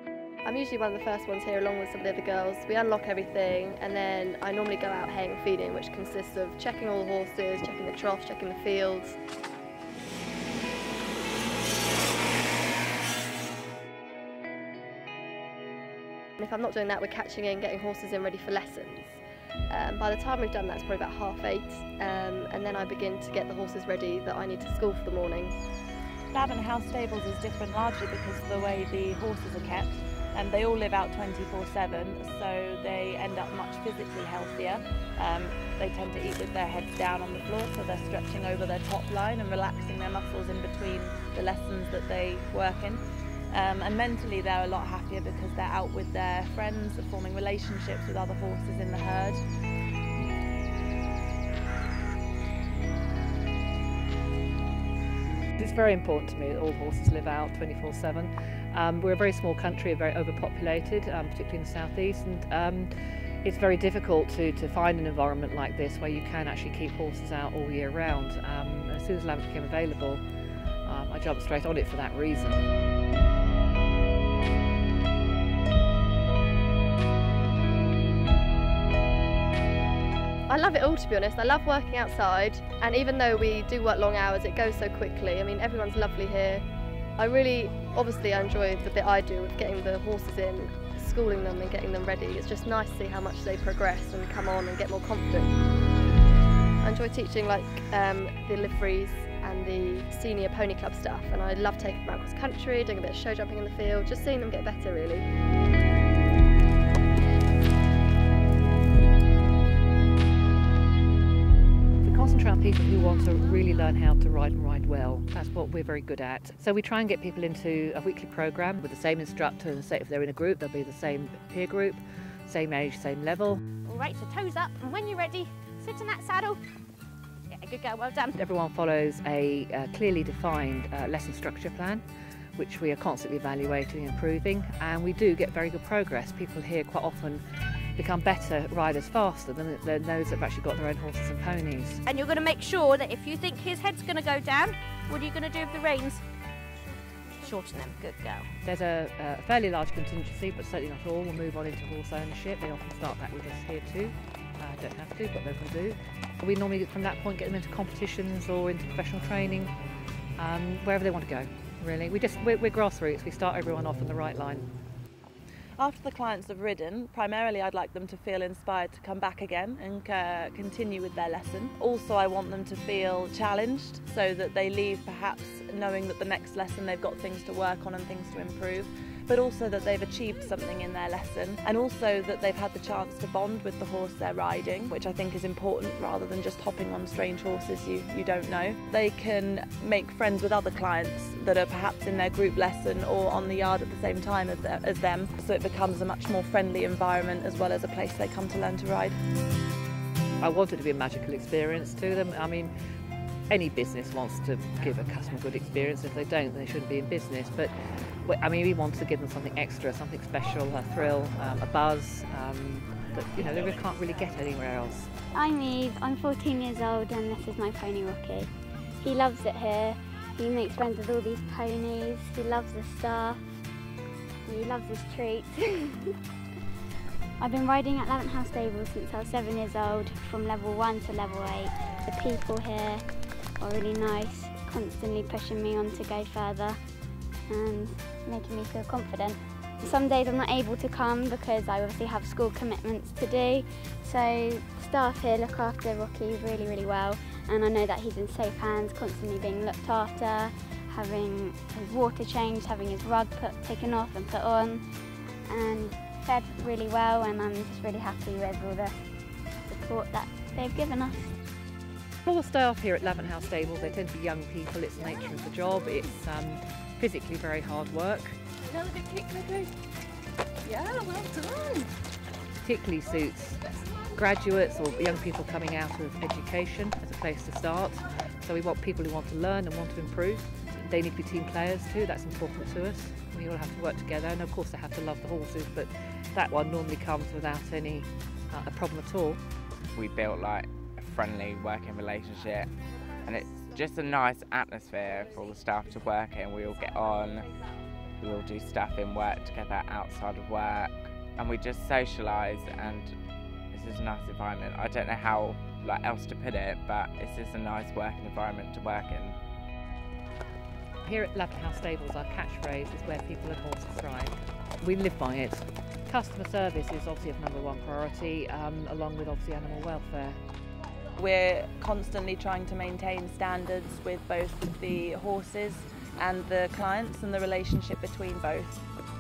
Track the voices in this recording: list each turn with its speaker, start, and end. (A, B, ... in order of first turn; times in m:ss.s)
0:00.4-0:09.2 A
0:16.4-0:25.6 A
0:26.3-0:49.4 B
0:55.6-1:10.2 C
1:10.8-1:12.6 C
1:20.5-1:26.6 A
1:27.2-1:35.5 A
1:36.8-1:45.3 A
1:52.0-2:03.6 C
2:03.8-2:06.6 D
2:07.5-2:08.3 D
2:08.4-2:12.0 C
2:12.6-2:17.4 C
2:18.0-2:22.0 C
2:22.1-2:26.2 D
2:27.4-2:28.5 D
2:28.6-2:39.7 C
2:40.4-2:44.7 C
2:45.8-3:19.2 B
3:20.4-3:22.7 C
3:23.5-3:35.1 C
3:35.3-3:43.6 E
3:44.5-3:46.2 E
3:47.4-3:53.0 E
3:53.6-3:56.8 E
3:57.5-4:19.0 E
4:19.7-4:21.3 E
4:22.3-4:28.4 C
4:28.7-4:29.7 D
4:29.1-4:29.4 A
4:30.7-4:31.7 D
4:31.2-4:31.6 A
4:32.6-4:49.4 C
4:50.0-4:52.7 F
4:53.2-4:57.5 F
4:58.2-5:03.1 F
5:03.7-5:09.4 F
5:11.0-5:20.4 C
5:21.2-5:28.8 B